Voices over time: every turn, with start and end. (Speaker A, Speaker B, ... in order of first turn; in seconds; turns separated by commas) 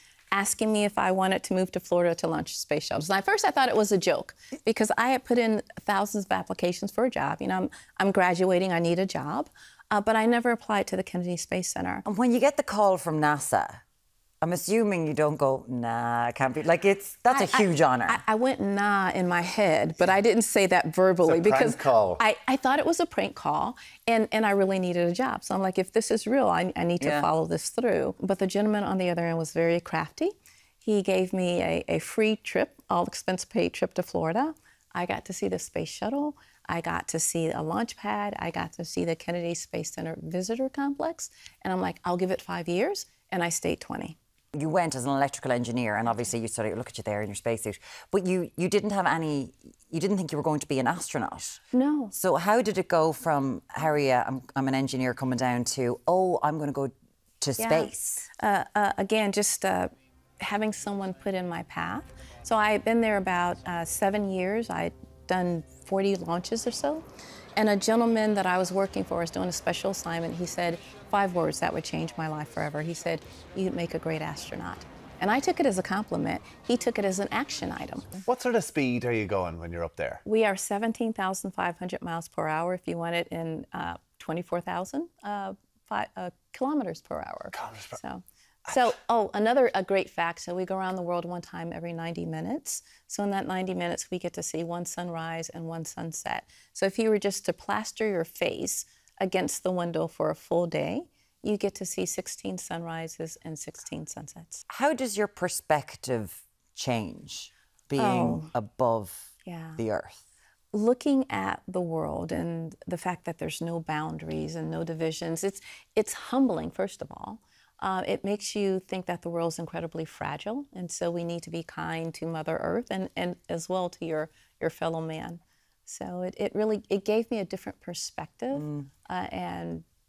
Speaker A: 0.3-12.1, Speaker B: 12.1-13.8, Speaker B: 14.4-18.2, Speaker A: 17.3-44.2, Speaker C: 21.2-22.2, Speaker B: 27.0-27.3, Speaker B: 44.5-51.6, Speaker A: 51.7-52.1, Speaker B: 52.1-58.3, Speaker A: 57.6-67.0, Speaker A: 67.6-78.2, Speaker C: 78.2-80.2, Speaker A: 80.2-104.7, Speaker C: 87.5-88.0, Speaker B: 104.7-110.2, Speaker A: 108.0-108.5, Speaker A: 109.5-109.8, Speaker A: 110.7-129.8, Speaker B: 128.5-128.9